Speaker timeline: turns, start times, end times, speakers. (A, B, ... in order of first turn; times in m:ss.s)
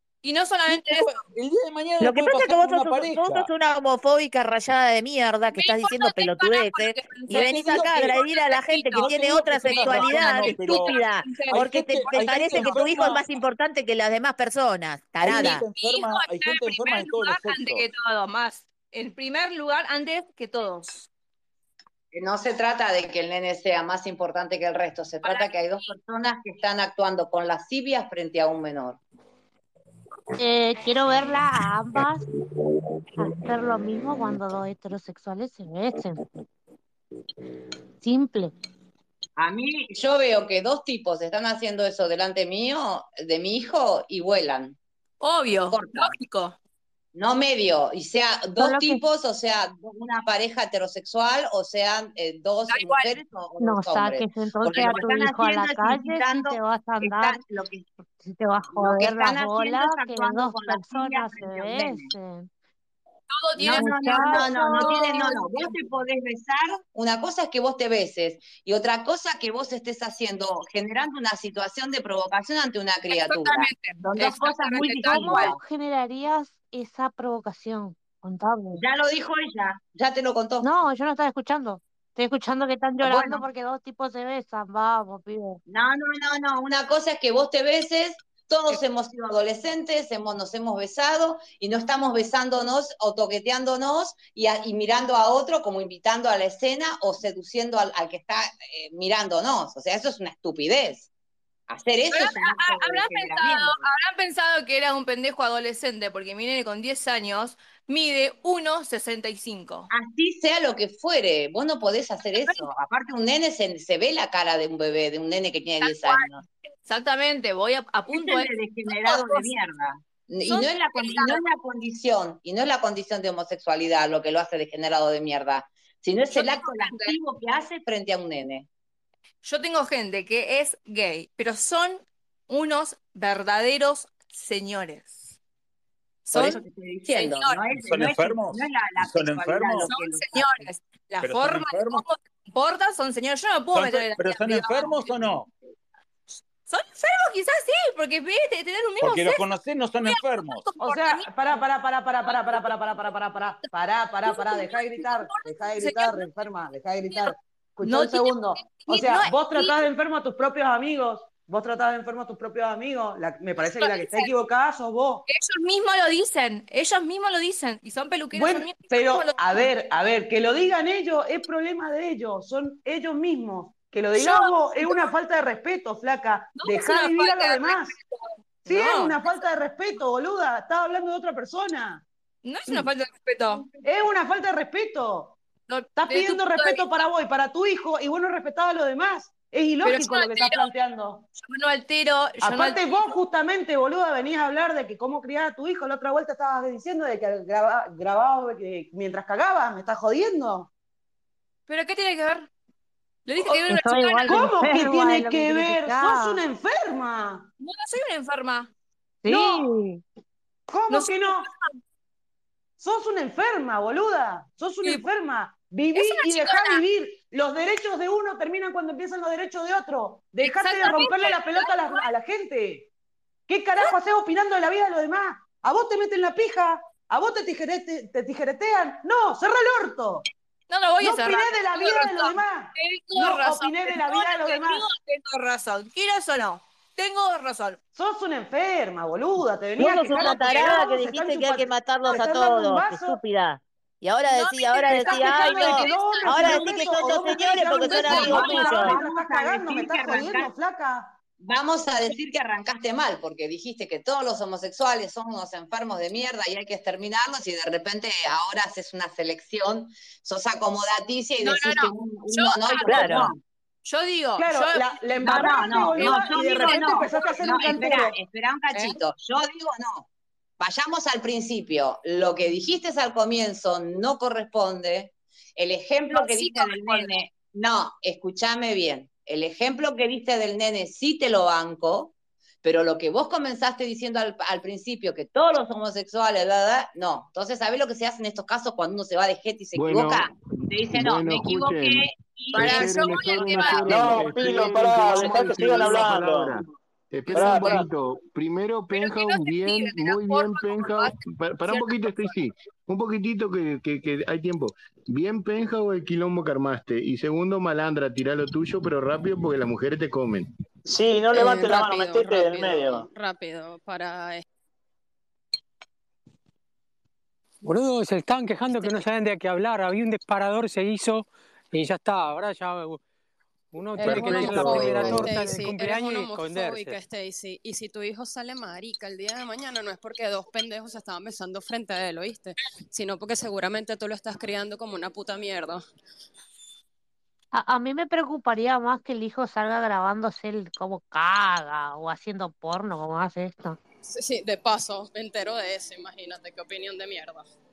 0:00.2-0:01.2 A
0:00.7-0:03.5 B
0:02.0-0:15.6 C
0:05.5-0:13.2 A
0:07.3-0:08.2 B
0:08.9-0:13.4 B
0:15.2-0:17.8 B
0:15.4-0:21.1 A
0:22.1-0:29.0 D
0:25.2-0:25.5 A
0:30.4-0:32.2 E
0:33.2-0:36.2 E
0:38.0-0:38.5 E
0:39.4-0:44.8 D
0:45.2-0:46.6 A
0:45.7-0:46.1 D
0:47.1-0:57.8 D
0:48.6-0:49.0 E
0:52.7-0:53.2 A
0:53.6-0:57.4 E
0:58.2-1:02.5 E
0:58.7-1:02.1 D
1:03.3-1:05.8 A
1:03.6-1:15.6 D
1:03.7-1:05.0 E
1:13.1-1:15.6 A
1:14.8-1:18.8 E
1:18.8-1:20.7 D
1:20.6-1:25.6 E
1:23.0-1:23.4 D
1:25.7-1:41.1 D
1:41.7-1:43.8 D
1:42.1-1:49.9 A
1:49.9-1:56.4 D
1:55.8-1:56.3 A
1:56.8-1:59.5 A
1:58.1-2:08.7 D
2:00.4-2:01.4 A
2:06.3-2:07.1 A
2:09.4-2:15.4 A
2:16.2-2:17.6 A
2:16.3-2:20.7 D
2:17.7-2:19.9 B
2:19.9-2:25.2 A
2:21.2-2:22.0 B
2:23.7-2:25.5 B
2:26.6-2:29.4 A
2:29.0-2:30.7 B
2:30.0-2:31.6 A
2:30.8-2:45.2 F
2:32.2-2:33.1 A
2:34.2-2:36.3 A
2:37.0-2:39.9 A
2:43.8-2:44.3 A
2:45.3-2:49.7 A
2:48.3-2:57.9 F
2:54.1-2:55.1 A
2:56.6-2:59.5 A
2:58.6-3:02.0 F
3:02.4-3:03.7 A
3:03.8-3:05.4 F
3:05.7-3:07.0 A
3:06.0-3:11.2 F
3:09.8-3:10.7 A
3:11.4-3:13.2 A
3:12.4-3:20.7 F
3:21.7-3:22.5 A
3:23.2-3:24.8 A
3:23.7-3:26.4 E
3:24.3-3:27.5 F
3:27.6-3:28.7 A
3:29.2-3:30.0 E
3:29.3-3:29.7 F
3:30.7-3:31.5 F
3:30.9-3:31.8 A
3:32.8-3:42.9 F
3:35.9-3:36.8 A
3:40.4-3:42.1 A
3:43.5-3:50.2 F
3:50.7-3:57.8 A
3:51.0-3:54.8 F
3:57.9-4:03.2 F
3:59.8-4:09.0 C
4:00.1-4:00.8 A
4:04.3-4:08.2 A
4:04.9-4:11.1 F
4:08.0-4:10.5 D
4:11.4-4:23.4 D
4:21.4-4:23.3 A
4:22.8-4:23.3 C
4:23.8-4:27.8 A
4:24.4-4:28.2 F
4:25.2-4:30.1 D
4:28.7-4:29.0 A
4:30.6-4:53.8 D
4:36.1-4:37.1 A
4:49.7-4:50.3 G
4:50.9-5:10.5 G
4:52.5-4:54.1 A
4:53.8-4:56.6 H
4:57.3-4:57.8 A
4:57.3-4:57.8 H
4:58.9-5:01.2 A
5:01.7-5:02.3 A
5:10.8-5:13.1 H
5:11.3-5:14.4 I
5:17.6-5:23.0 J
5:23.7-5:27.0 J
5:24.0-5:35.8 I
5:24.0-5:25.3 G
5:37.5-5:43.8 E
5:44.0-5:47.5 I